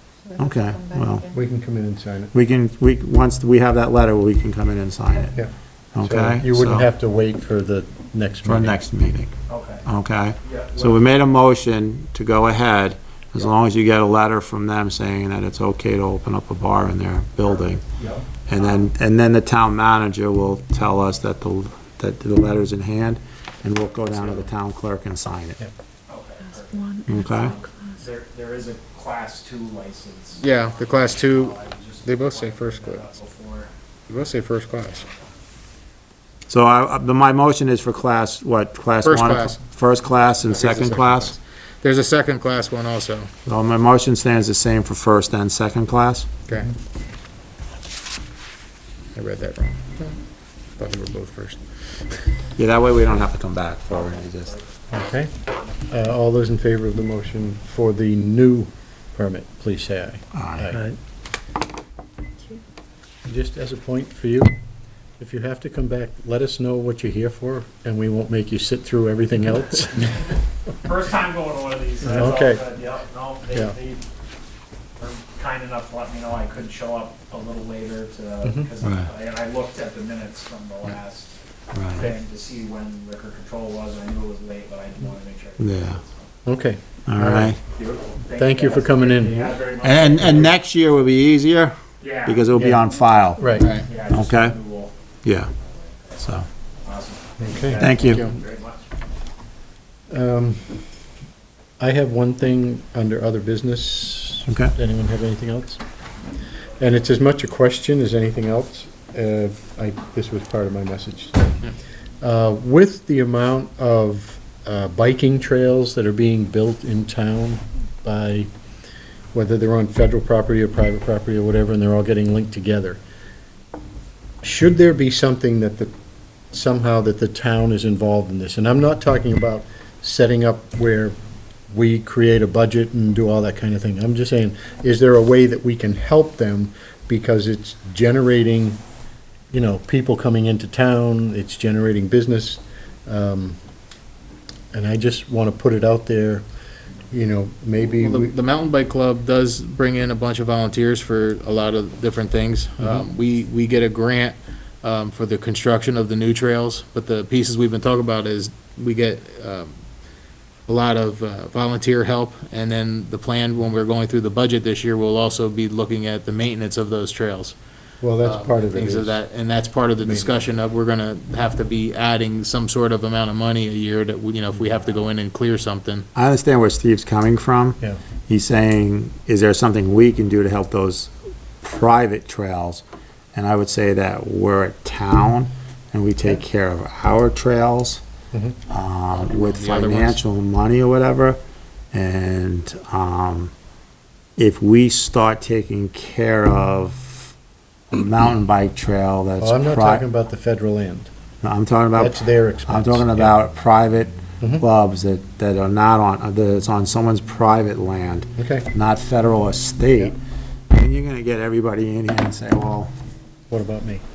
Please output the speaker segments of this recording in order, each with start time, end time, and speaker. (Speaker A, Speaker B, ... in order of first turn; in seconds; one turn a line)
Speaker A: 0.2-1.4
Speaker B: 0.4-1.3
Speaker C: 1.3-2.3
Speaker B: 2.3-5.4
Speaker B: 5.9-6.9
Speaker C: 6.0-8.8
Speaker B: 8.5-17.8
Speaker D: 9.5-9.8
Speaker D: 10.4-11.0
Speaker D: 18.0-18.9
Speaker B: 18.5-25.6
Speaker D: 26.1-33.7
Speaker A: 26.5-28.0
Speaker B: 27.1-27.5
Speaker E: 30.4-33.1
Speaker E: 34.1-35.1
Speaker D: 34.9-35.4
Speaker B: 36.5-41.4
Speaker E: 39.0-39.6
Speaker E: 40.5-43.3
Speaker B: 43.5-46.3
Speaker E: 49.1-50.2
Speaker E: 50.8-51.6
Speaker B: 52.6-54.5
Speaker D: 53.9-54.6
Speaker C: 54.9-55.3
Speaker C: 55.9-60.9
Speaker B: 60.3-60.8
Speaker C: 63.3-64.5
Speaker C: 65.2-70.3
Speaker D: 70.8-74.0
Speaker C: 72.0-72.6
Speaker D: 75.0-81.3
Speaker C: 78.4-78.7
Speaker B: 78.8-79.1
Speaker B: 81.7-82.1
Speaker D: 81.9-86.2
Speaker B: 85.6-86.0
Speaker C: 86.5-87.6
Speaker B: 87.1-87.6
Speaker D: 87.7-90.5
Speaker C: 88.4-89.6
Speaker B: 89.8-93.5
Speaker D: 92.0-92.4
Speaker C: 92.5-92.8
Speaker C: 93.4-93.7
Speaker E: 93.6-93.9
Speaker D: 93.8-94.9
Speaker B: 94.1-94.5
Speaker B: 95.2-95.5
Speaker D: 95.6-96.3
Speaker B: 96.2-96.5
Speaker D: 96.8-98.8
Speaker C: 97.4-98.4
Speaker B: 97.8-98.3
Speaker C: 100.1-100.8
Speaker C: 101.8-105.8
Speaker B: 104.5-104.7
Speaker C: 106.8-111.7
Speaker C: 112.2-118.5
Speaker C: 119.3-123.0
Speaker C: 124.4-125.9
Speaker C: 126.5-131.2
Speaker C: 131.7-138.8
Speaker C: 139.5-143.6
Speaker C: 144.7-146.4
Speaker C: 147.1-148.3
Speaker E: 147.8-159.7
Speaker E: 160.7-167.6
Speaker C: 168.0-169.2
Speaker E: 168.2-176.1
Speaker B: 176.2-181.1
Speaker B: 181.6-188.0
Speaker C: 188.3-188.6
Speaker B: 188.7-191.4
Speaker E: 189.2-190.2
Speaker B: 191.9-193.5
Speaker B: 194.4-197.3
Speaker B: 197.9-200.1
Speaker C: 199.4-201.1
Speaker B: 201.4-210.2
Speaker C: 201.9-203.3
Speaker C: 208.4-208.7
Speaker B: 210.7-212.9
Speaker C: 213.5-214.0